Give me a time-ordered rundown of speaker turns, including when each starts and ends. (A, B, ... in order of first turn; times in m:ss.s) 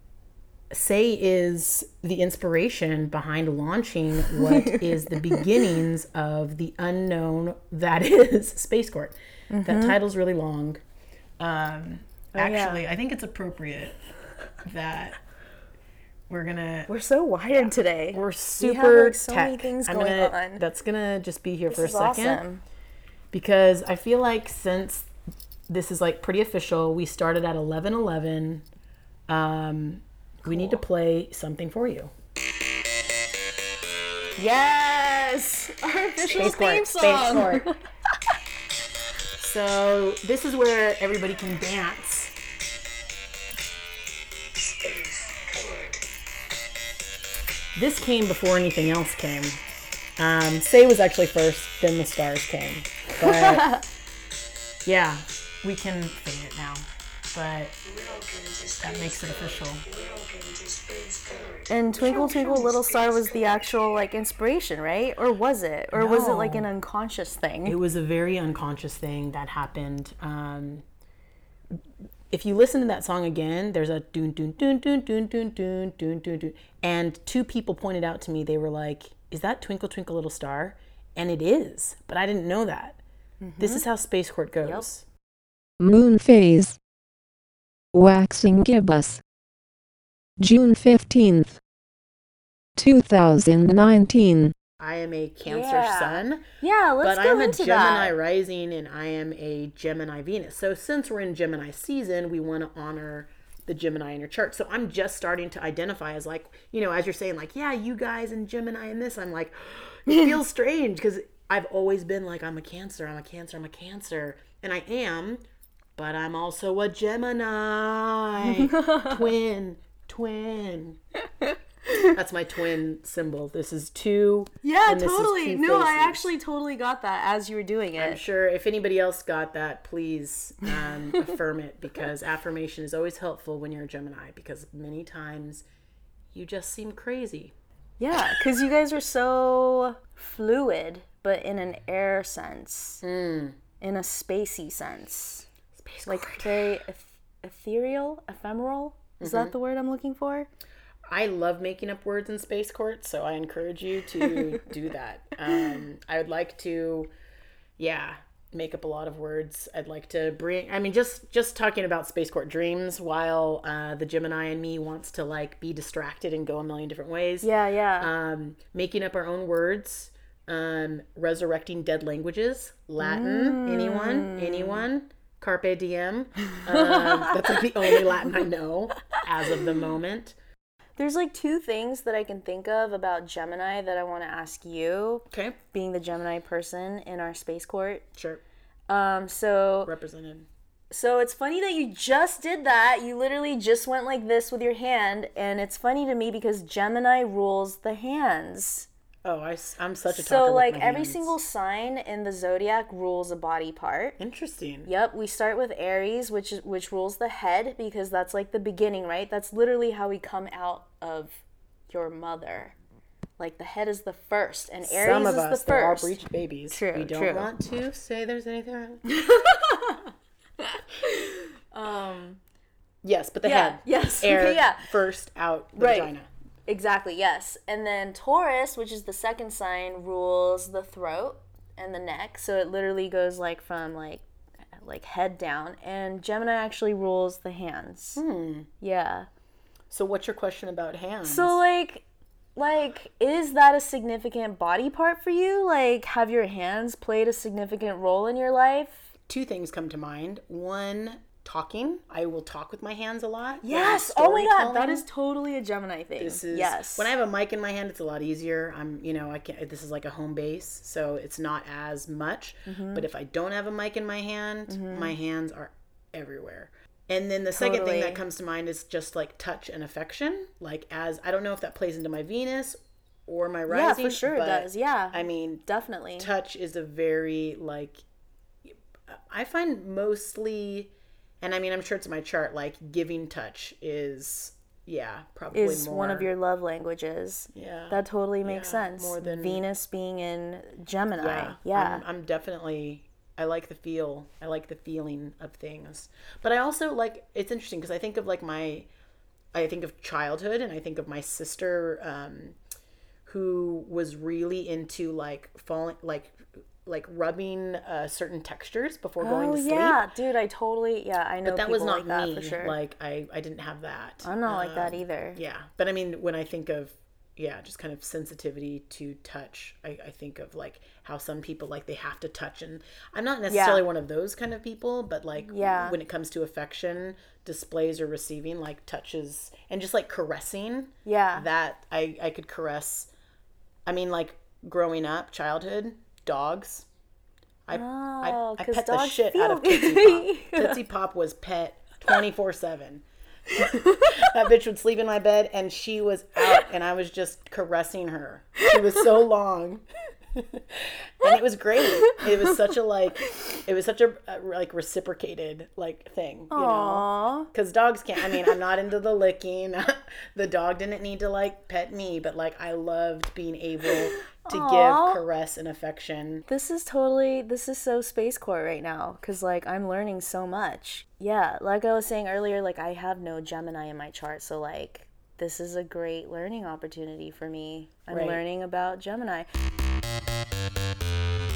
0:00.7-0:10.8 A
0:04.3-0:05.6 B
0:09.5-0:10.0 B
0:11.4-0:14.0 A
0:12.4-0:12.8 B
0:14.6-0:15.2 A
0:16.3-0:16.9 A
0:16.9-0:20.6 B
0:18.1-0:22.4 A
0:21.7-0:22.6 B
0:23.3-0:25.1 A
0:25.7-0:28.6 A
0:29.3-0:32.1 A
0:30.5-0:30.8 B
0:34.4-0:37.8 B
0:36.3-0:37.7 A
0:39.4-0:42.3 A
0:47.7-0:49.6 A
0:50.2-0:53.7 A
0:53.2-0:53.8 B
0:54.8-0:57.8 A
0:58.6-1:00.0 A
1:01.7-1:07.8 B
1:05.9-1:06.7 A
1:07.6-1:10.8 A
1:12.3-1:23.0 A
1:23.4-1:23.8 B
1:23.6-1:25.0 A
1:25.8-1:26.8 C
1:27.9-1:29.2 C
1:30.4-1:31.6 C
1:32.8-1:34.5 C
1:34.8-1:36.4 A
1:35.4-1:38.1 B
1:37.0-1:55.4 A
1:56.0-2:01.0 A
1:58.6-1:59.3 B
2:01.4-2:02.2 B
2:02.0-2:06.3 A
2:04.6-2:08.2 B
2:08.0-2:15.7 A
2:10.8-2:11.3 B
2:16.3-2:17.5 A
2:18.0-2:23.0 B
2:23.0-2:23.6 A
2:23.8-2:25.5 B
2:25.8-2:26.8 A
2:26.1-2:30.5 B
2:29.2-2:29.5 A
2:31.1-2:37.1 A
2:34.2-2:34.6 B
2:37.8-3:00.4 A
2:47.4-2:48.1 B
2:53.0-2:54.9 B
2:56.8-2:58.3 B
2:59.5-2:59.8 B
3:01.0-3:08.1 B
3:05.3-3:05.6 A
3:08.2-3:08.4 A
3:08.9-3:09.9 B
3:09.8-3:10.5 A
3:10.9-3:18.9 B
3:19.2-3:21.3 A
3:20.1-3:24.2 B
3:24.2-3:24.9 A
3:24.8-3:32.8 B
3:33.4-3:37.5 B
3:34.8-3:39.1 A
3:39.1-3:42.4 B
3:43.0-3:46.3 A
3:43.4-3:44.8 B
3:45.8-3:46.1 B
3:46.7-3:54.2 B
3:54.8-3:58.2 B
3:58.2-3:58.7 A
3:58.8-3:59.3 B
3:59.9-4:01.6 A
4:01.2-4:02.0 B
4:02.6-4:09.1 B
4:09.3-4:15.0 A
4:13.6-4:17.1 B
4:16.2-4:35.6 A
4:22.6-4:23.0 B
4:24.7-4:25.1 B
4:27.5-4:28.2 B
4:33.7-4:36.3 B
4:36.2-4:38.0 A
4:38.6-4:46.3 A
4:45.5-4:52.0 B
4:47.5-4:49.6 A
4:51.2-4:58.9 A
4:59.5-5:02.6 A
5:03.2-5:10.0 A
5:09.2-5:12.8 B
5:11.4-5:33.1 A
5:14.2-5:15.4 B
5:23.5-5:23.8 B
5:25.4-5:26.0 B
5:31.0-5:31.4 B
5:33.8-5:36.9 A
5:37.7-5:43.0 A
5:37.7-5:40.8 B
5:43.5-5:44.3 B
5:43.6-5:49.8 A
5:48.8-5:49.0 B
5:50.4-6:06.4 A
5:51.8-5:52.6 B
5:56.5-5:57.5 B
5:58.2-5:58.5 B
6:04.4-6:05.2 B
6:06.5-6:19.5 B
6:18.1-6:18.4 A